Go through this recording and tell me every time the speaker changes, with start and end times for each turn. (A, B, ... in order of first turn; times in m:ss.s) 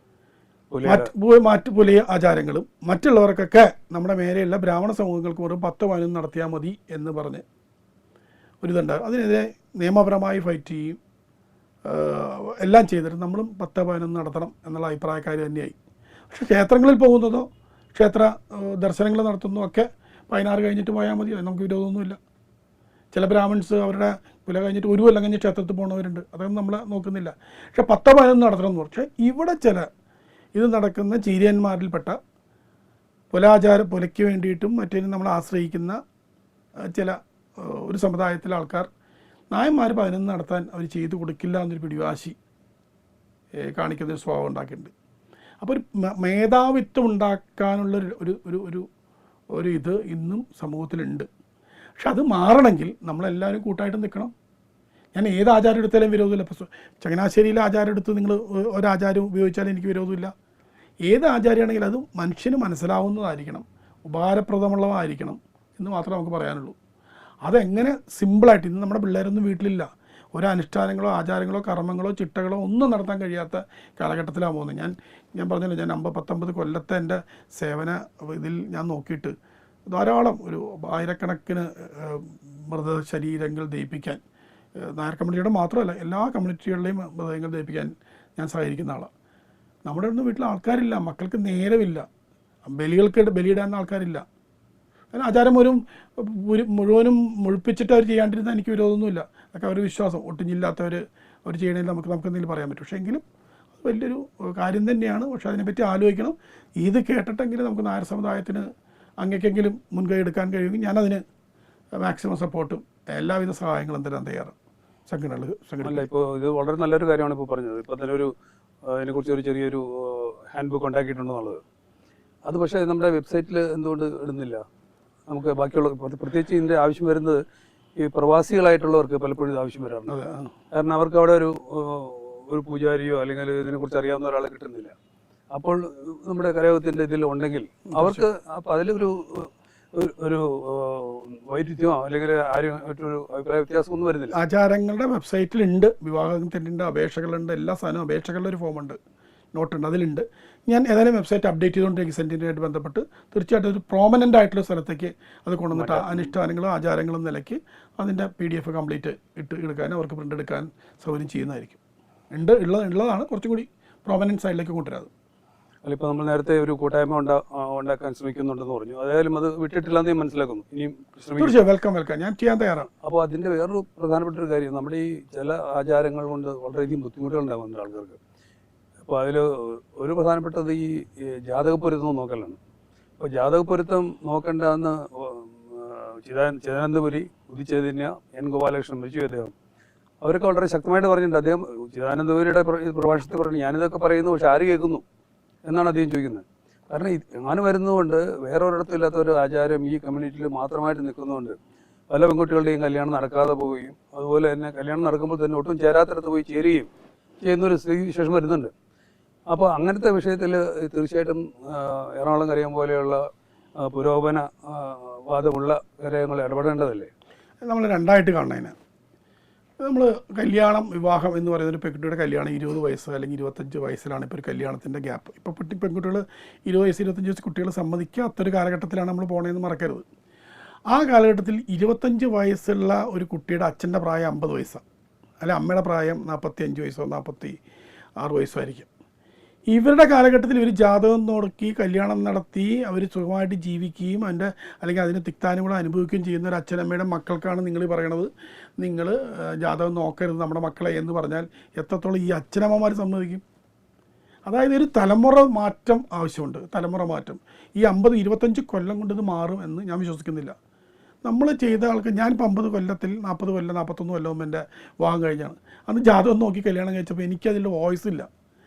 0:00.7-0:01.1 A
0:00.8-0:07.4 B
0:08.6-0:11.0 B
0:11.9-0:15.8 B
0:16.3-0:22.2 B
0:23.1-0:29.9 B
0:30.6-0:32.2 B
0:33.3-0:36.0 B
0:36.9-0:38.9 B
0:39.5-0:42.4 B
0:43.6-0:44.9 B
0:45.6-0:48.9 B
0:49.5-0:51.3 B
0:52.0-0:54.3 B
0:55.2-1:00.3 B
1:01.1-1:06.8 B
1:07.4-1:19.3 B
1:19.9-1:24.2 B
1:24.8-1:29.1 B
1:29.9-1:32.0 B
1:32.6-1:34.2 B
1:35.1-1:43.2 B
1:43.8-1:48.7 B
1:49.2-1:51.2 B
1:52.0-1:54.6 B
1:55.1-1:56.1 B
1:55.8-1:58.3 A
1:58.9-2:01.6 A
2:02.5-2:04.6 A
2:05.3-2:07.4 A
2:08.0-2:10.1 A
2:10.1-2:10.5 B
2:10.7-2:14.9 A
2:15.5-2:24.4 A
2:17.9-2:18.3 B
2:24.3-2:29.0 B
2:29.5-2:41.8 B
2:35.7-2:36.3 A
2:42.3-2:45.1 B
2:45.8-2:51.6 A
2:51.4-2:52.9 B
2:53.0-2:58.2 A
2:59.1-3:02.6 A
3:03.2-3:09.5 A
3:10.2-3:15.0 A
3:15.6-3:21.6 A
3:22.1-3:26.9 A
3:27.4-3:28.7 A
3:29.5-3:33.2 A
3:33.8-3:37.1 A
3:37.6-3:38.8 B
3:39.8-3:50.0 B
3:50.9-3:54.8 B
3:55.4-3:57.6 B
3:58.2-3:58.9 B
3:59.7-4:13.4 B
4:14.5-4:20.6 B
4:21.2-4:28.3 B